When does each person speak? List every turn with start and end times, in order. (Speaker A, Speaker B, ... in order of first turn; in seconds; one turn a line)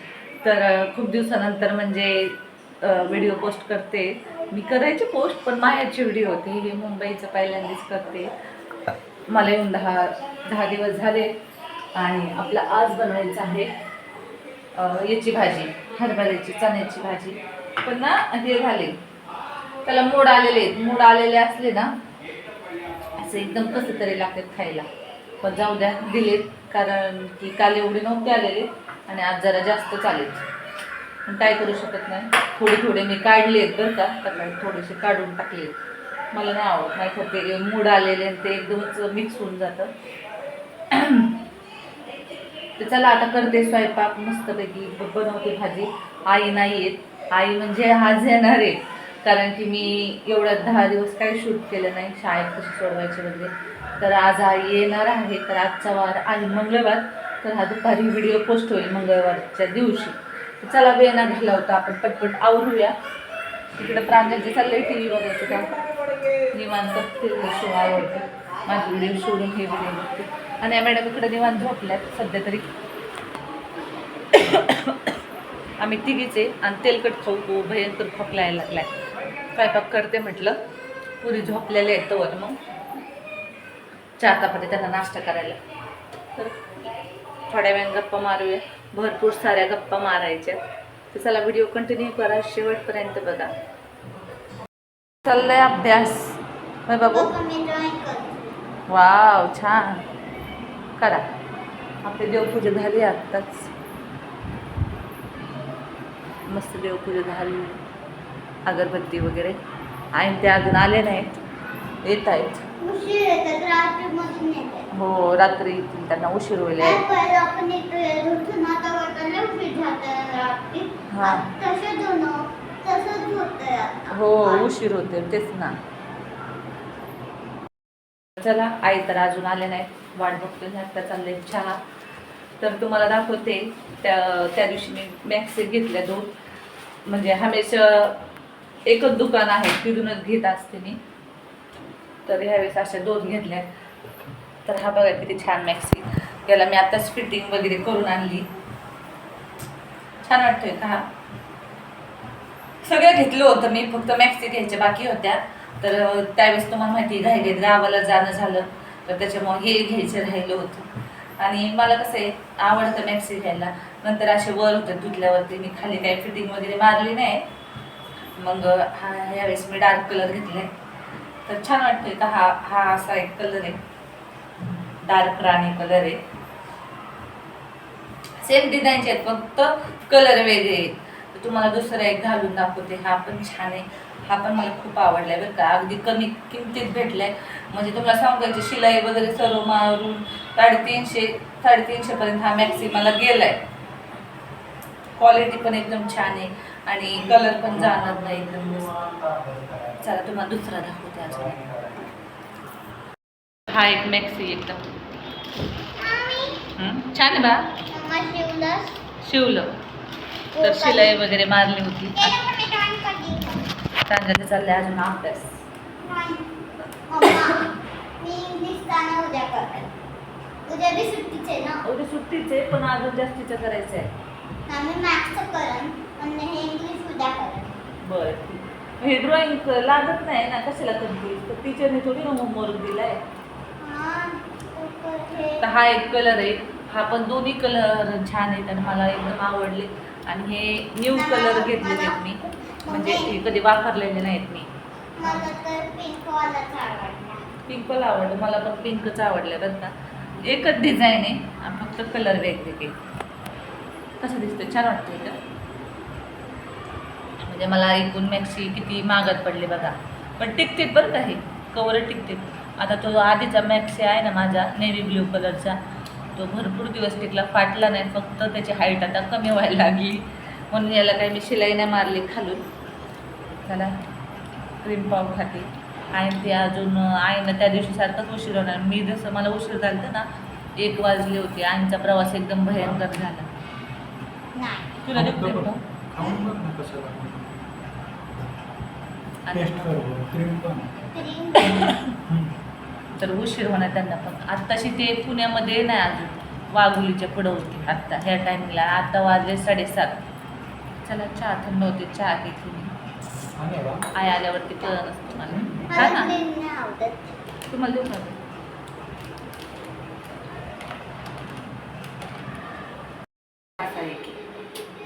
Speaker A: 0.4-8.3
Speaker A: 9.3-11.3
Speaker A: 11.9-13.7
Speaker A: 14.8-19.0
Speaker A: 19.9-21.9
Speaker A: 23.1-24.9
Speaker A: 25.4-30.4
Speaker A: 31.2-35.8
Speaker A: 36.3-39.9
Speaker A: 40.9-41.4
Speaker A: 42.8-63.0
Speaker A: 63.8-65.7
Speaker A: 66.5-72.7
Speaker A: 74.3-75.1
Speaker A: 75.8-79.0
Speaker A: 79.5-80.6
Speaker A: 81.2-82.6
Speaker A: 84.2-85.6
Speaker A: 86.3-86.8
Speaker A: 87.5-90.6
Speaker A: 91.1-93.5
Speaker A: 95.2-97.3
Speaker B: 97.1-98.6
Speaker A: 98.9-100.0
Speaker A: 101.0-101.2
Speaker A: 102.0-103.7
Speaker A: 106.5-107.8
Speaker A: 108.7-109.6
Speaker A: 110.1-111.3
Speaker A: 112.0-112.6
Speaker B: 112.8-114.8
Speaker A: 114.9-117.0
Speaker B: 116.8-124.7
Speaker A: 121.1-121.5
Speaker A: 124.1-125.8
Speaker A: 128.4-131.8
Speaker A: 132.6-136.3
Speaker A: 137.1-138.2
Speaker A: 138.8-141.0
Speaker A: 142.2-143.7
Speaker A: 144.7-148.5
Speaker A: 150.2-151.1
Speaker A: 152.8-167.5
Speaker A: 168.4-170.7
Speaker A: 171.4-173.8
Speaker A: 174.7-176.2
Speaker A: 178.4-193.6
Speaker A: 195.2-198.9
Speaker C: 197.3-200.0
Speaker A: 200.0-201.6
Speaker C: 201.4-202.1
Speaker A: 203.7-204.8
Speaker B: 206.0-206.6
Speaker A: 206.8-207.7
Speaker B: 207.9-208.9
Speaker A: 209.2-209.7
Speaker B: 210.5-211.2
Speaker A: 210.6-212.4
Speaker B: 212.2-213.6
Speaker A: 214.1-215.6
Speaker B: 216.0-216.4
Speaker B: 217.1-217.7
Speaker B: 218.2-219.9
Speaker B: 220.7-221.8
Speaker A: 221.8-224.1
Speaker B: 224.7-227.8
Speaker A: 228.0-233.2
Speaker B: 233.8-235.6
Speaker A: 235.6-244.7
Speaker B: 241.1-242.2
Speaker B: 242.8-243.3
Speaker B: 245.2-247.4
Speaker A: 247.7-253.0
Speaker A: 254.2-255.4
Speaker A: 257.4-265.8
Speaker A: 266.3-272.6
Speaker A: 273.6-274.0
Speaker A: 274.8-280.2
Speaker A: 280.8-283.5
Speaker B: 284.5-284.9
Speaker A: 285.0-285.8
Speaker C: 285.1-287.6
Speaker A: 289.4-290.0
Speaker C: 289.5-291.0
Speaker B: 291.1-291.9
Speaker A: 291.6-292.1
Speaker C: 292.3-292.5
Speaker A: 293.2-300.2
Speaker A: 301.0-302.9
Speaker C: 303.6-304.1
Speaker A: 304.1-306.3
Speaker C: 305.5-305.9
Speaker B: 305.9-307.3
Speaker A: 307.7-308.4
Speaker A: 313.8-314.4